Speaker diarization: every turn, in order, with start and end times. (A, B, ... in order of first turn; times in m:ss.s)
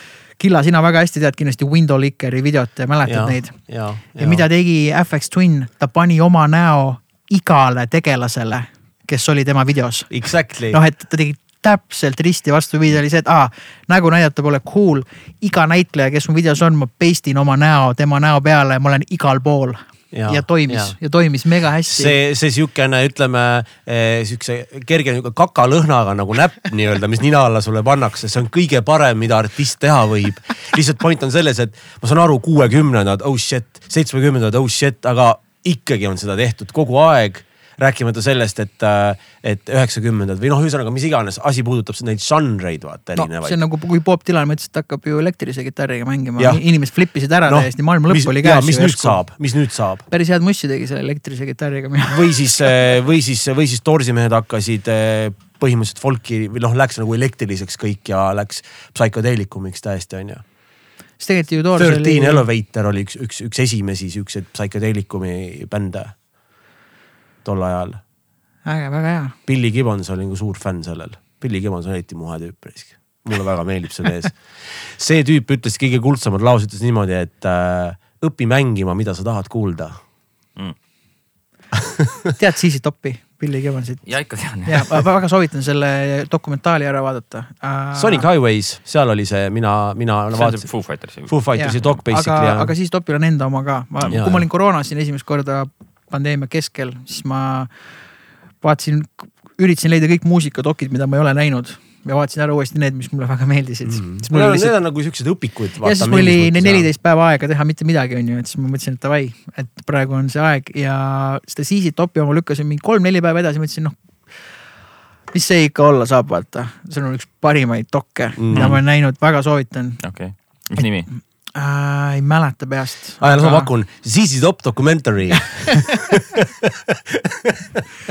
0:00.4-0:03.6 A
0:03.0-0:04.4 B
0:04.2-0:22.2 A
0:10.1-0:10.8 B
0:20.1-0:20.9 B
0:21.9-0:43.6 B
0:43.2-0:49.2 A
0:47.4-0:50.0 B
0:50.1-0:52.4 A
0:52.1-1:00.4 B
1:01.2-1:02.4 A
1:01.8-1:06.2 B
1:07.4-1:08.0 B
1:08.6-1:09.3 A
1:09.4-1:19.9 B
1:22.4-1:28.3 A
1:24.0-1:25.0 C
1:27.9-1:30.6 B
1:30.3-1:31.8 C
1:31.2-1:32.7 B
1:31.5-1:37.7 A
1:34.1-1:34.4 B
1:38.6-1:44.8 A
1:43.9-1:46.9 B
1:45.8-1:54.5 A
1:55.3-2:00.0 A
1:58.4-1:58.8 B
1:58.5-1:58.8 C
2:00.0-2:01.1 C
2:01.1-2:03.7 A
2:03.2-2:07.8 B